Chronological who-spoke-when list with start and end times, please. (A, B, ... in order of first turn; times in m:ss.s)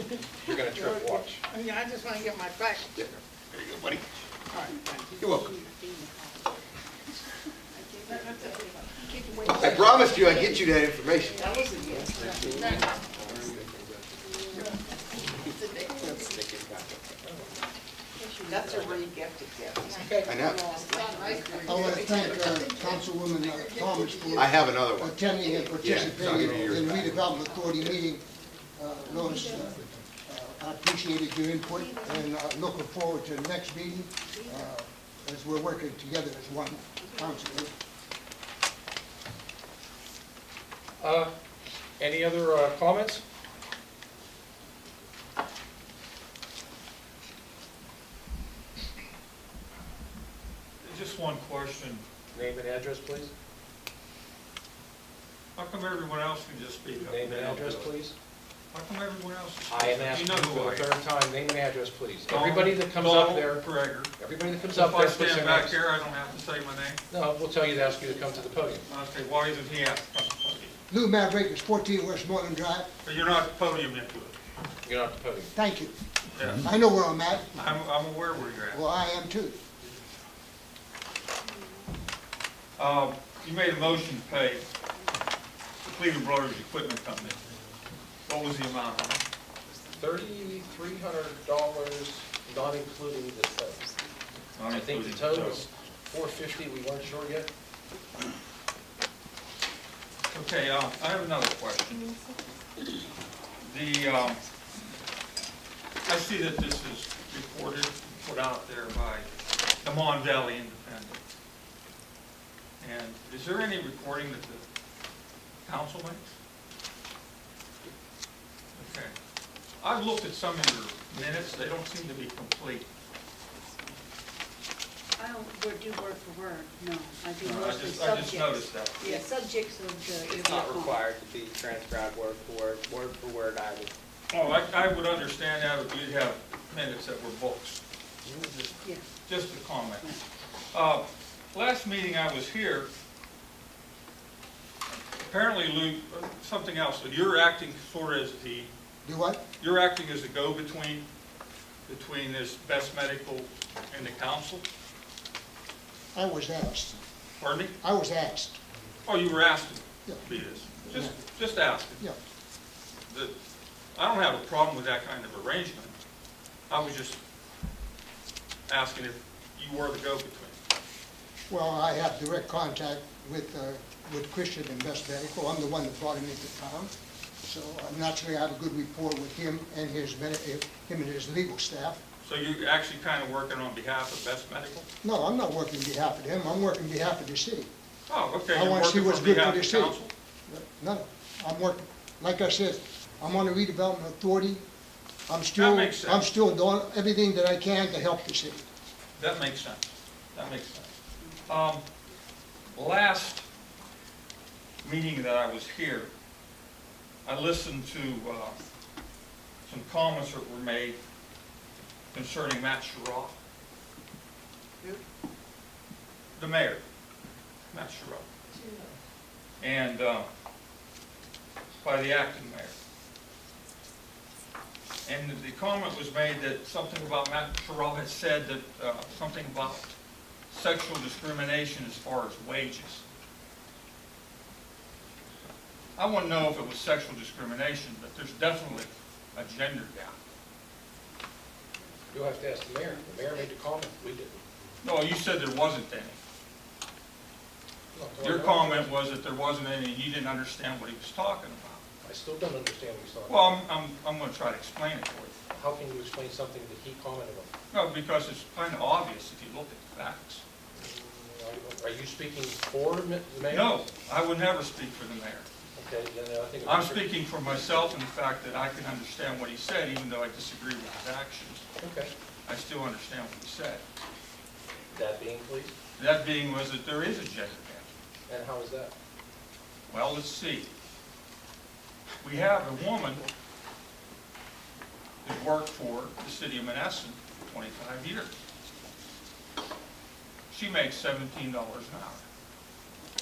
0:00.4-0:01.4 A
0:00.5-0:02.9 B
0:03.0-0:04.1 C
0:04.5-0:05.2 B
0:05.0-0:06.5 D
0:05.2-0:05.6 C
0:07.7-0:10.6 D
0:08.0-0:10.0 B
0:09.4-0:11.6 C
0:11.2-0:12.2 D
0:11.4-0:13.6 E
0:11.9-0:13.1 B
0:12.8-0:13.9 C
0:14.3-0:14.6 D
0:15.6-0:16.4 B
0:15.6-0:17.0 E
0:17.2-0:17.6 A
0:18.2-0:18.8 D
0:18.5-0:20.1 E
0:19.9-0:20.3 A
0:20.0-0:20.4 D
0:20.2-0:20.7 C
0:20.4-0:24.5 B
0:20.6-0:22.6 E
0:21.5-0:21.8 D
0:21.6-0:28.2 F
0:24.3-0:25.2 C
0:25.7-0:28.0 C
0:28.8-0:37.7 F
0:29.0-0:29.8 D
0:31.6-0:32.4 D
0:34.3-0:34.7 D
0:37.0-0:37.7 D
0:41.0-0:41.3 A
0:42.0-0:43.2 A
0:50.8-0:52.0 G
0:52.3-0:53.3 A
0:55.6-0:57.9 G
0:57.0-0:58.1 A
0:58.7-1:00.9 G
0:59.7-1:03.7 A
1:02.3-1:04.1 G
1:04.2-1:05.8 A
1:04.7-1:07.0 G
1:07.1-1:08.8 A
1:08.8-1:10.8 G
1:10.9-1:12.9 F
1:13.0-1:14.4 G
1:14.8-1:15.5 A
1:15.5-1:15.9 F
1:16.3-1:16.7 G
1:16.5-1:17.6 F
1:17.5-1:18.8 G
1:18.7-1:19.6 F
1:21.4-1:21.9 D
1:22.8-1:24.7 G
1:25.8-1:27.4 G
1:28.3-1:29.2 G
1:30.0-1:33.9 A
1:34.5-1:35.6 G
1:34.7-1:37.5 A
1:40.3-1:42.1 G
1:43.6-1:44.4 G
1:46.0-1:49.3 G
1:49.8-1:51.2 G
1:52.8-1:54.6 G
1:55.6-1:56.4 G
1:58.7-1:59.1 G
1:59.8-2:02.8 G
2:05.2-2:11.0 D
2:07.4-2:09.0 G
2:09.0-2:09.3 E
2:10.1-2:13.9 E
2:14.3-2:18.7 G
2:18.8-2:19.1 D
2:19.2-2:20.1 G
2:20.0-2:20.2 D
2:20.7-2:22.9 G
2:25.2-2:28.7 G
2:29.0-2:29.4 F
2:29.6-2:31.0 G
2:31.9-2:34.6 G
2:36.1-2:37.0 F
2:37.4-2:37.7 G
2:37.8-2:38.6 F
2:39.0-2:42.1 G
2:40.8-2:41.1 F
2:43.1-2:43.3 G
2:43.9-2:46.0 G
2:46.7-2:47.2 G
2:48.7-2:50.6 G
2:51.5-2:56.9 F
2:57.4-3:02.0 F
3:02.2-3:04.9 G
3:05.0-3:07.7 F
3:08.1-3:10.1 G
3:08.5-3:14.6 F
3:15.3-3:18.6 F
3:15.6-3:16.3 G
3:19.2-3:20.9 G
3:21.5-3:21.8 G
3:22.7-3:23.4 G
3:24.8-3:26.1 G
3:27.2-3:28.6 G
3:29.6-3:31.0 G
3:32.1-3:33.3 G
3:36.4-3:36.8 G
3:37.7-3:38.2 G
3:39.6-3:40.3 G
3:41.8-3:42.7 G
3:45.0-3:49.9 G
3:50.5-3:53.0 G
3:56.0-4:00.2 G
4:02.1-4:04.4 A
4:04.8-4:06.2 G
4:07.9-4:08.9 A
4:08.2-4:11.8 G
4:12.0-4:13.6 A
4:13.3-4:15.4 G
4:15.5-4:17.5 A
4:17.7-4:20.4 G
4:20.7-4:23.8 A
4:23.5-4:25.4 G
4:25.7-4:27.1 A
4:26.6-4:31.6 G
4:31.8-4:32.1 A
4:32.4-4:33.8 G
4:34.9-4:35.7 A
4:36.0-4:37.9 G
4:38.3-4:38.9 A
4:39.9-4:40.7 G
4:42.2-4:43.3 G
4:45.2-4:48.3 G
4:50.5-4:52.2 G